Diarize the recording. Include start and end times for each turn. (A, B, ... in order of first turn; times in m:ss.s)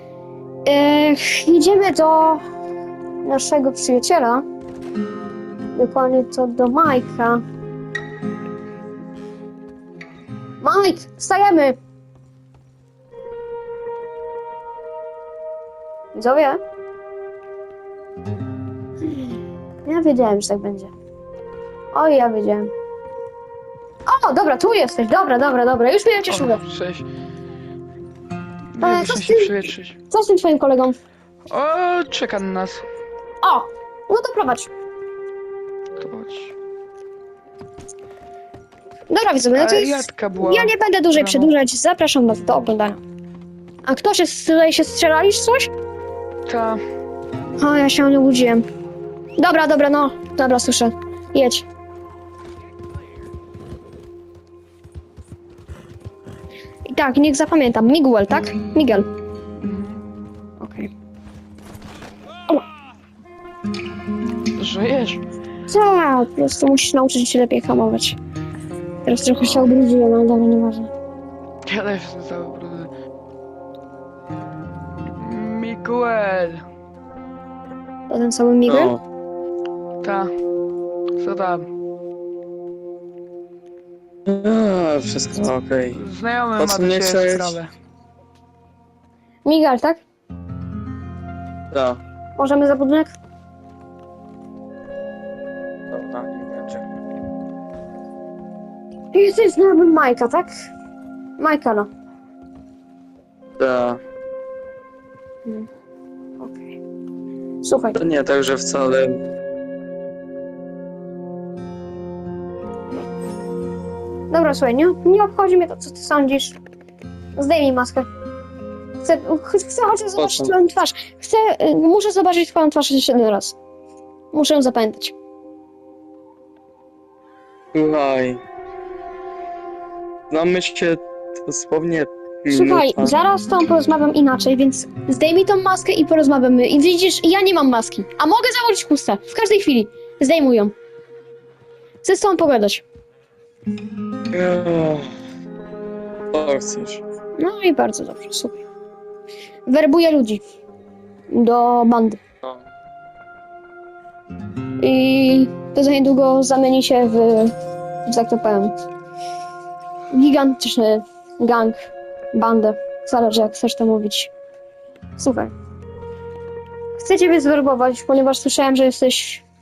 0:00.7-0:02.4 A
0:03.2-0:04.4 A
0:05.8-0:07.4 A
0:10.6-0:11.8 A
0:16.1-0:16.6 A
0:19.8-0:20.9 A
0:21.9-0:22.7 A
0:24.1-0:26.6 A
0:26.3-0:27.1 B
0:28.7-0:30.0 B
0:28.8-0:31.0 A
0:31.5-0:32.8 B
0:33.4-0:34.7 A
0:36.0-0:36.5 B
0:39.1-0:43.0 A
0:39.6-0:41.5 B
0:43.8-0:45.7 A
0:46.5-0:46.8 B
0:47.6-0:48.6 A
0:49.4-0:51.7 A
0:56.9-0:59.1 A
0:59.6-1:00.0 B
1:00.6-1:00.9 A
1:04.6-1:05.2 B
1:05.7-1:08.2 A
1:09.0-1:10.9 A
1:11.7-1:12.9 B
1:15.2-1:16.6 B
1:18.1-1:19.0 A
1:18.7-1:19.0 C
1:20.0-1:20.3 B
1:21.2-1:21.7 B
1:24.3-1:26.0 C
1:25.9-1:27.7 B
1:26.6-1:27.5 C
1:29.4-1:30.0 A
1:31.7-1:32.0 C
1:32.4-1:33.1 A
1:35.9-1:36.8 C
1:39.1-1:40.5 A
1:41.4-1:41.9 A
1:43.6-1:44.0 C
1:46.4-1:46.7 A
1:47.6-1:48.0 A
1:48.0-1:49.2 C
1:54.3-1:56.6 A
1:57.4-1:58.1 A
1:59.0-2:03.6 A
2:00.2-2:00.5 C
2:04.3-2:05.2 A
2:07.7-2:08.4 C
2:10.3-2:13.1 C
2:12.5-2:20.7 A
2:22.0-2:22.8 A
2:24.3-2:25.1 C
2:26.3-2:27.0 C
2:27.4-2:28.6 A
2:29.7-2:30.4 A
2:31.3-2:32.2 A
2:34.8-2:37.5 A
2:38.1-2:38.7 A
2:40.1-2:41.8 A
2:42.3-2:44.3 A
2:45.2-2:45.5 A
2:47.0-2:49.4 A